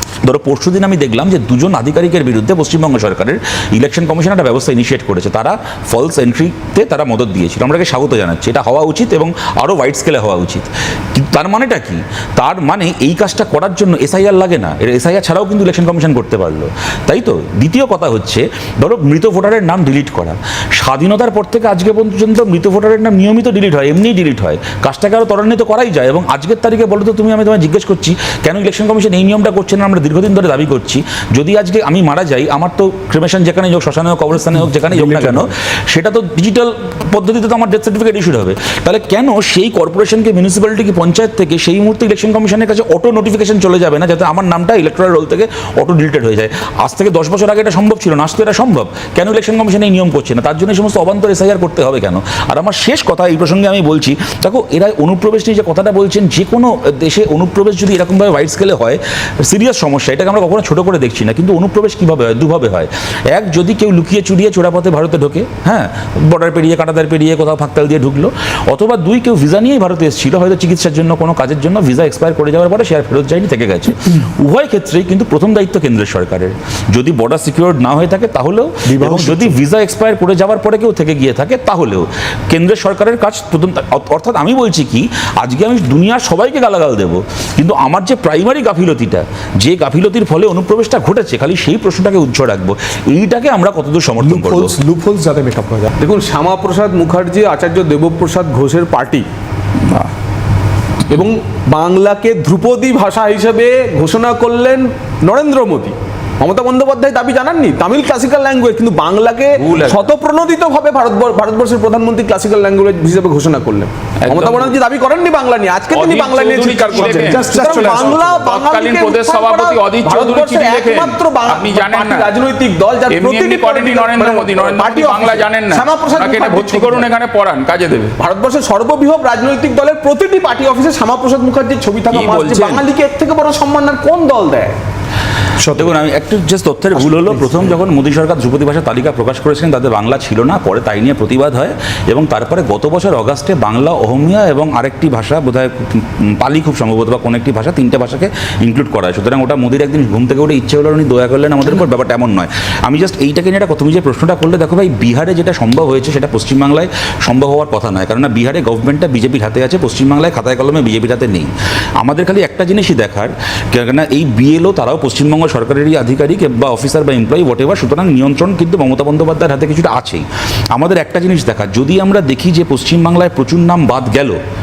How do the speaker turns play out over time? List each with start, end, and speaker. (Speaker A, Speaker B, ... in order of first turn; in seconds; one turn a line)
Speaker A: 0.2-94.8
Speaker B: 34.9-35.5
Speaker B: 78.9-79.6
Speaker B: 94.2-95.9
Speaker C: 96.0-99.2
Speaker C: 101.1-127.1
Speaker A: 109.6-110.1
Speaker D: 114.2-114.8
Speaker D: 115.9-122.3
Speaker B: 116.9-118.3
Speaker D: 123.1-128.2
Speaker C: 128.2-134.8
Speaker D: 132.1-132.8
Speaker B: 135.6-135.9
Speaker A: 135.7-161.5
Speaker B: 137.1-137.6
Speaker A: 162.0-174.4